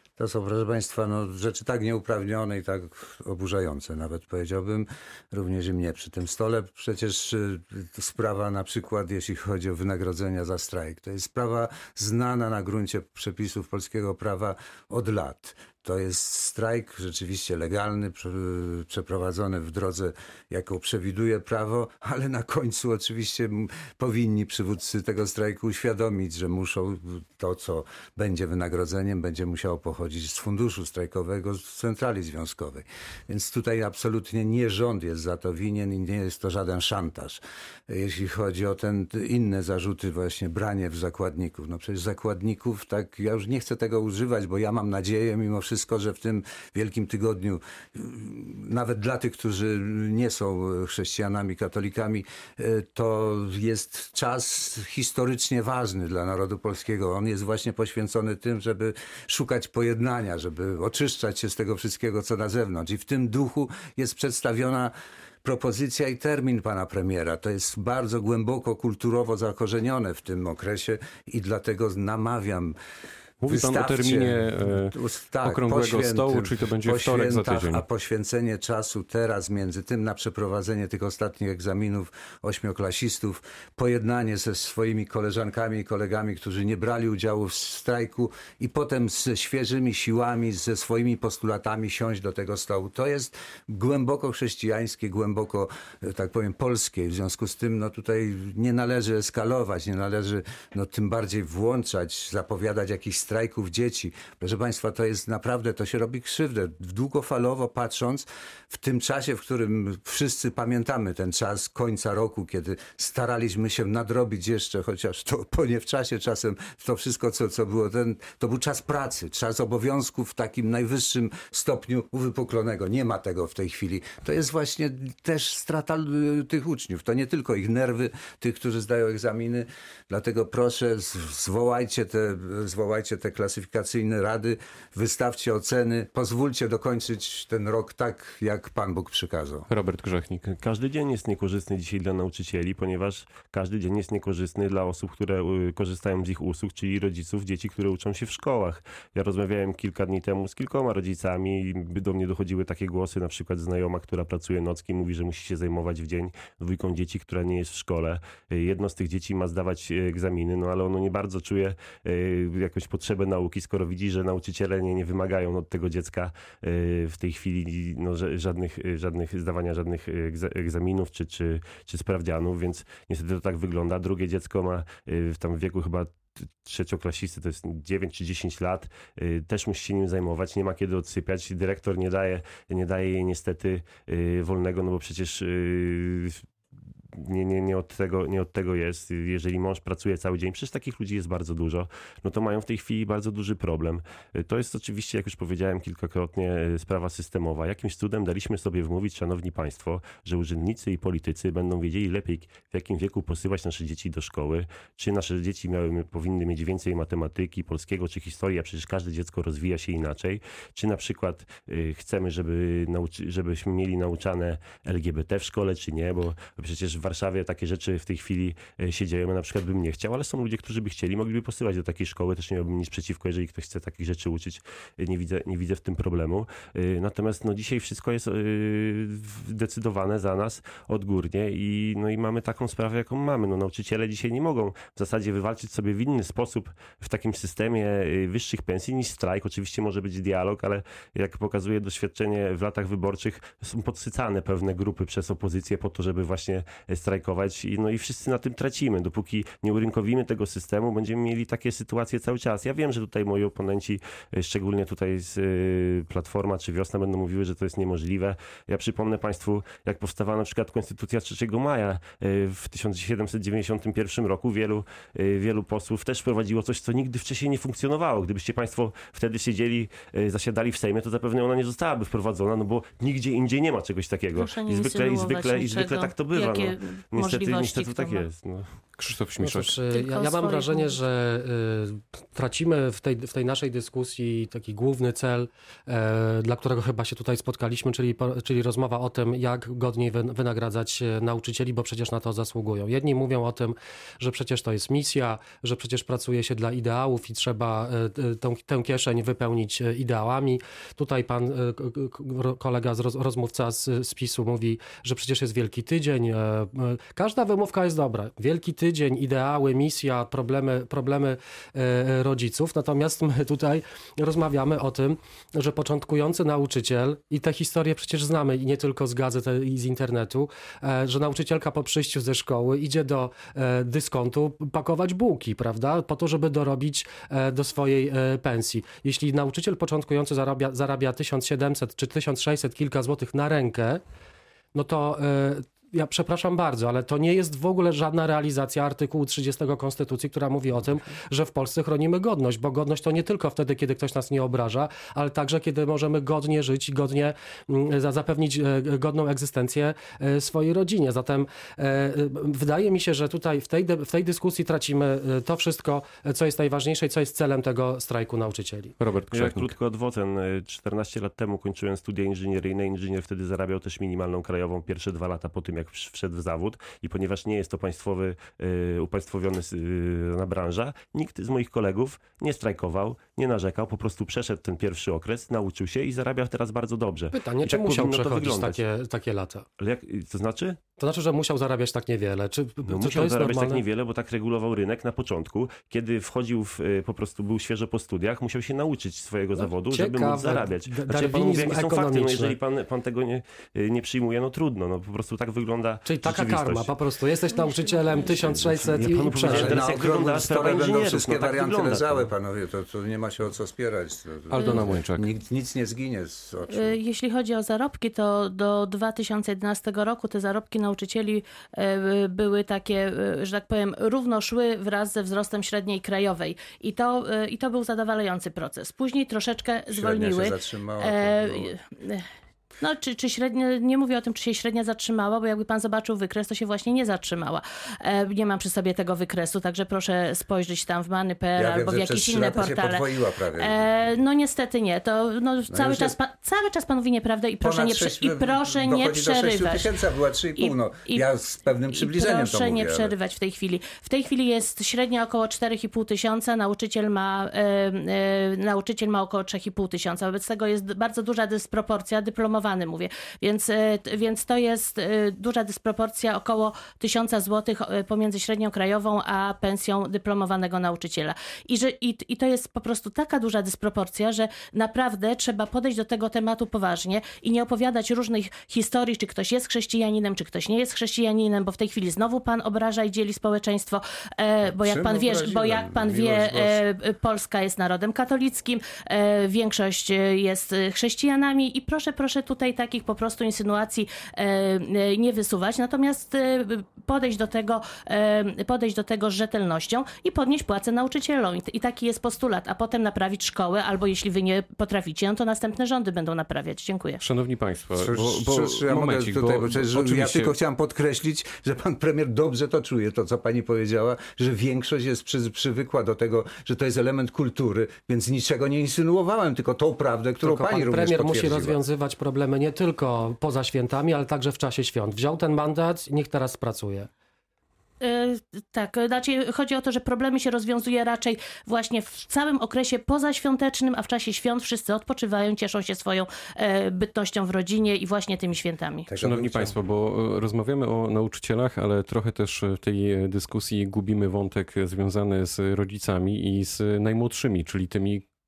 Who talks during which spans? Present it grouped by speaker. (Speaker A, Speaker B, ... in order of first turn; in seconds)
Speaker A: 0.2-64.9, 65.4-72.8, 73.4-139.7, 399.4-406.9, 419.9-421.7, 431.6-434.1, 435.7-436.1, 437.6-443.1, 474.8-476.8, 497.9-511.8, 529.1-529.8
Speaker B: 73.4-77.8, 139.7-140.4, 279.0-279.8, 359.0-359.7, 404.5-405.3, 497.2-500.6, 529.2-538.2
Speaker C: 140.4-186.4, 187.1-278.7, 359.3-378.8, 379.8-380.8, 382.9-397.0, 398.6-402.3
Speaker D: 274.4-278.3, 279.9-281.0, 404.6-404.9, 406.7-422.2, 422.8-439.9, 440.6-441.3, 441.9-497.2, 518.0-529.1
Speaker E: 279.4-334.0, 334.7-358.9, 377.3-379.7, 381.0-383.8, 389.6-392.6, 396.1-399.9, 510.4-517.1